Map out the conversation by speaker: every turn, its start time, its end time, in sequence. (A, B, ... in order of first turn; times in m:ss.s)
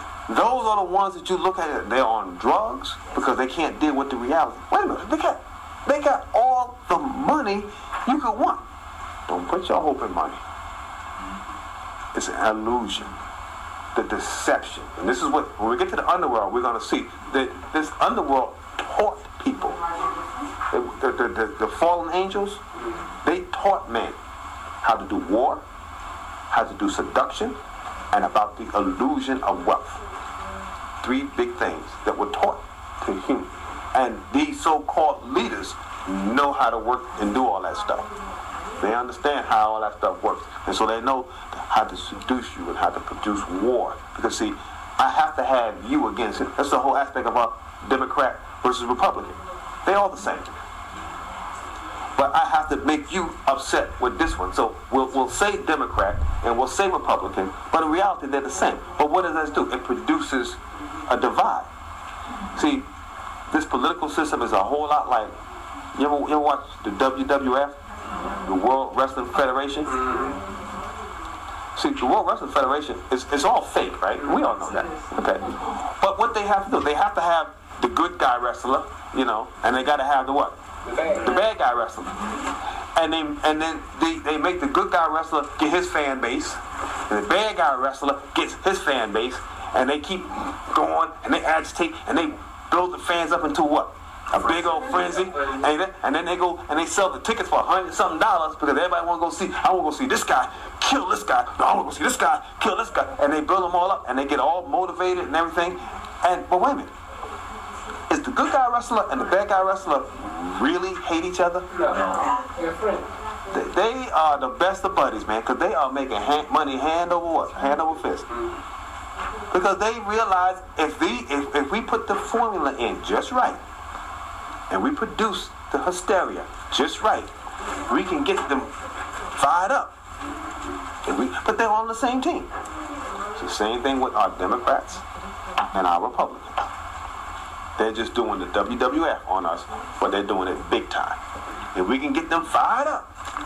0:00.3-0:08.6 A
0:09.3-0:10.4 A
0:12.1-0:13.2 A
0:13.9-0:19.8 A
0:20.7-0:22.6 A
0:23.2-0:24.2 A
0:24.8-0:25.6 A
0:26.5-0:27.6 A
0:28.1-0:30.0 A
0:31.0-0:38.1 A
0:38.8-0:50.6 A
0:52.2-1:01.7 A
1:02.5-1:02.9 A
1:03.5-1:05.3 A
1:06.0-1:07.8 A
1:08.3-1:10.1 A
1:09.9-1:10.4 B
1:11.8-1:20.6 A
1:20.8-1:21.3 B
1:21.1-1:22.2 A
1:23.0-1:46.9 A
1:35.0-1:35.4 B
1:48.1-1:52.2 A
1:51.7-1:53.1 B
1:53.5-1:58.3 A
1:59.5-2:03.6 A
2:04.7-2:07.3 A
2:07.9-2:08.7 A
2:09.3-2:09.9 A
2:11.0-2:12.5 A
2:13.4-2:15.0 A
2:15.7-2:16.7 A
2:17.8-2:21.2 A
2:21.7-2:23.1 A